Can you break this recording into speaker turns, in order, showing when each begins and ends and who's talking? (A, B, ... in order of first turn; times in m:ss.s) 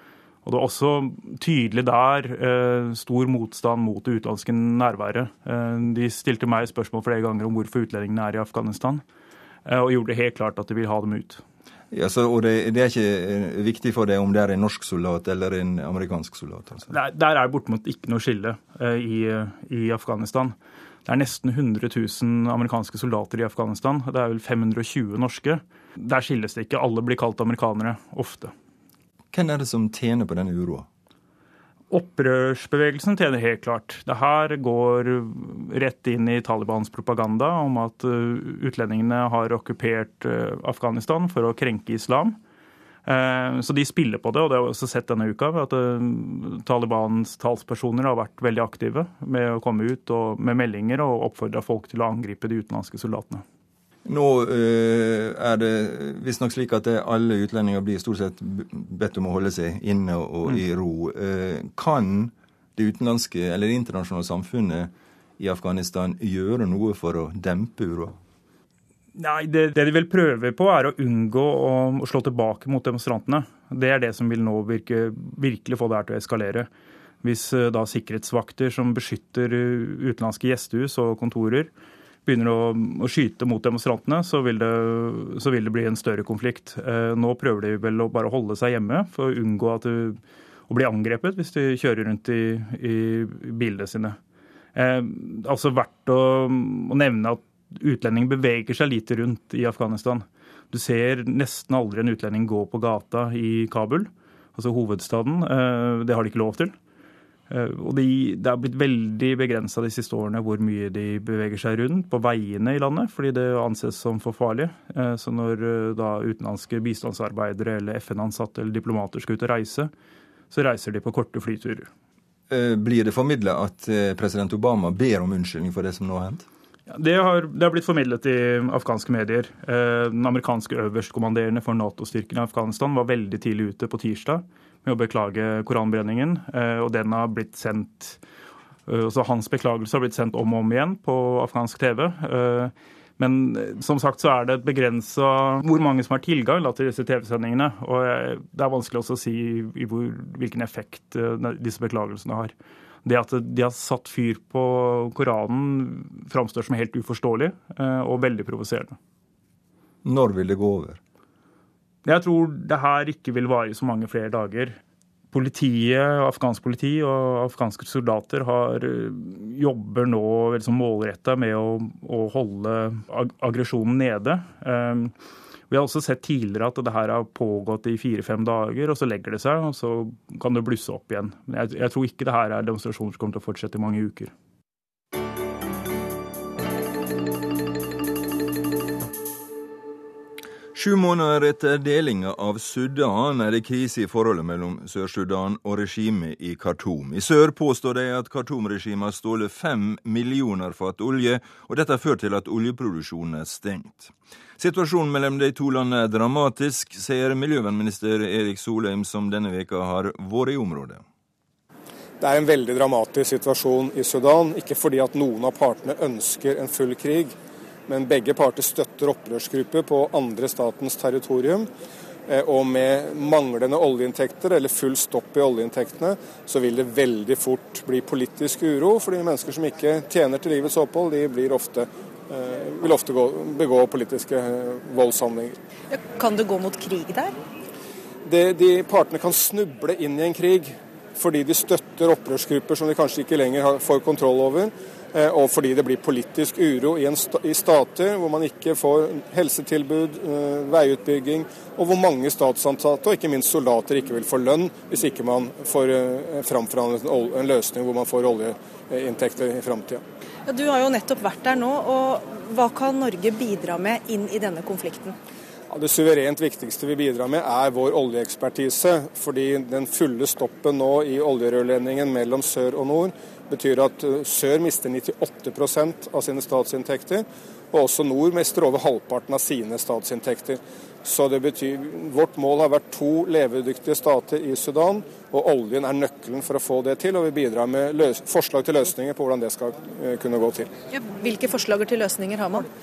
0:00.4-0:09.0 A
0:09.6-0:11.4 A
0:11.9-0:16.9 B
0:16.9-0:20.5 A
0:21.0-0:28.5 A
0:29.3-0:30.9 B
0:31.9-0:42.4 A
0:43.0-0:53.4 A
0:54.0-1:08.2 B
1:09.2-1:16.7 A
1:17.2-1:21.7 A
1:22.2-1:34.2 A
1:34.7-1:46.7 A
1:47.5-1:59.9 A
2:00.5-2:01.9 A
2:02.5-2:06.4 B
2:06.9-2:18.2 A
2:18.9-2:32.5 A
2:33.0-2:39.0 A
2:40.0-2:41.0 B
2:42.0-2:44.8 A
2:45.3-2:55.1 A
2:55.7-3:04.3 A
3:10.7-3:31.0 B
3:32.2-3:37.4 C
3:37.9-3:41.7 C
3:42.3-3:55.6 C
3:55.9-3:57.4 D
3:58.2-4:20.0 C
4:20.5-4:25.2 D
4:25.7-4:50.7 C
4:50.9-4:52.7 D